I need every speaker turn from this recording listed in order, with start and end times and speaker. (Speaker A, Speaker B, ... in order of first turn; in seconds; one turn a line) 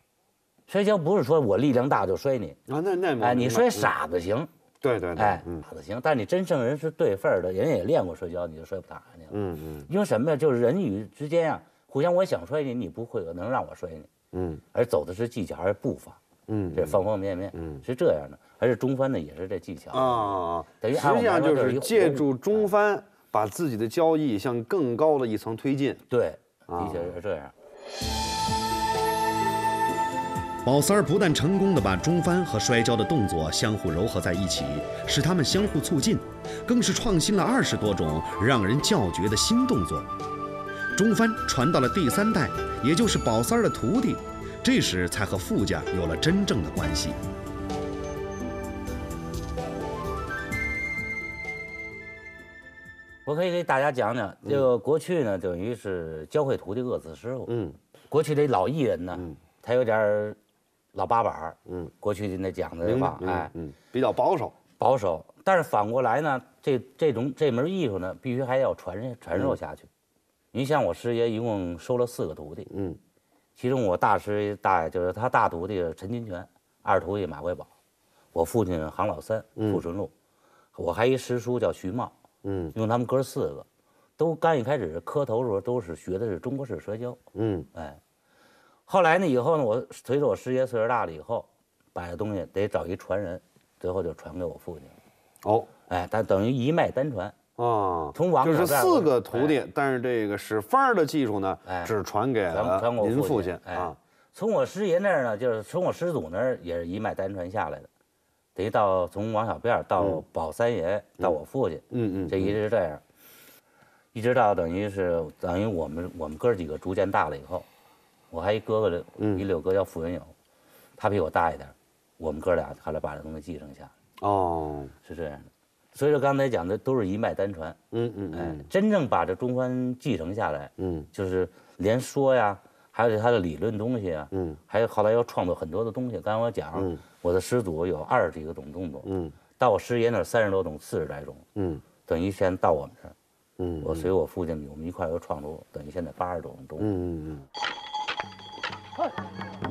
Speaker A: 0.7-2.6
Speaker B: 2.7-3.9
Speaker A: 3.2-4.5
Speaker B: 4.8-5.6
Speaker A: 5.2-9.3
Speaker B: 9.3-9.9
Speaker A: 9.9-14.1
Speaker B: 14.3-14.6
Speaker A: 14.7-16.2
Speaker B: 16.5-17.0
Speaker A: 16.7-22.7
Speaker B: 17.5-17.8
Speaker B: 19.9-26.0
Speaker A: 26.1-27.5
Speaker B: 26.7-27.1
Speaker C: 30.6-40.1
Speaker C: 40.9-47.2
Speaker A: 53.2-57.5
Speaker B: 57.5-57.8
Speaker A: 58.1-60.4
Speaker A: 60.9-63.5
Speaker B: 62.8-64.6
Speaker A: 64.8-69.9
Speaker A: 70.5-72.7
Speaker B: 72.7-73.0
Speaker A: 73.5-77.7
Speaker A: 78.3-80.1
Speaker B: 79.6-79.8
Speaker A: 80.7-82.1
Speaker B: 82.4-82.7
Speaker A: 82.7-83.7
Speaker A: 84.2-87.2
Speaker B: 87.3-87.7
Speaker A: 87.7-88.0
Speaker A: 88.9-94.9
Speaker B: 95.4-95.7
Speaker A: 95.9-97.4
Speaker B: 97.6-104.0
Speaker A: 98.1-99.6
Speaker A: 101.7-101.9
Speaker A: 102.5-107.9
Speaker A: 108.5-113.0
Speaker B: 111.9-112.6
Speaker A: 114.1-117.7
Speaker A: 118.3-120.3
Speaker B: 119.2-119.4
Speaker A: 121.0-123.9
Speaker B: 124.2-124.9
Speaker A: 125.0-127.8
Speaker B: 127.9-128.7
Speaker A: 128.3-141.4
Speaker B: 130.8-131.1
Speaker B: 134.3-134.6
Speaker B: 136.8-137.0
Speaker B: 139.0-139.4
Speaker B: 141.6-141.8
Speaker A: 142.0-143.1
Speaker B: 143.6-144.1
Speaker A: 143.8-146.9
Speaker B: 146.8-147.4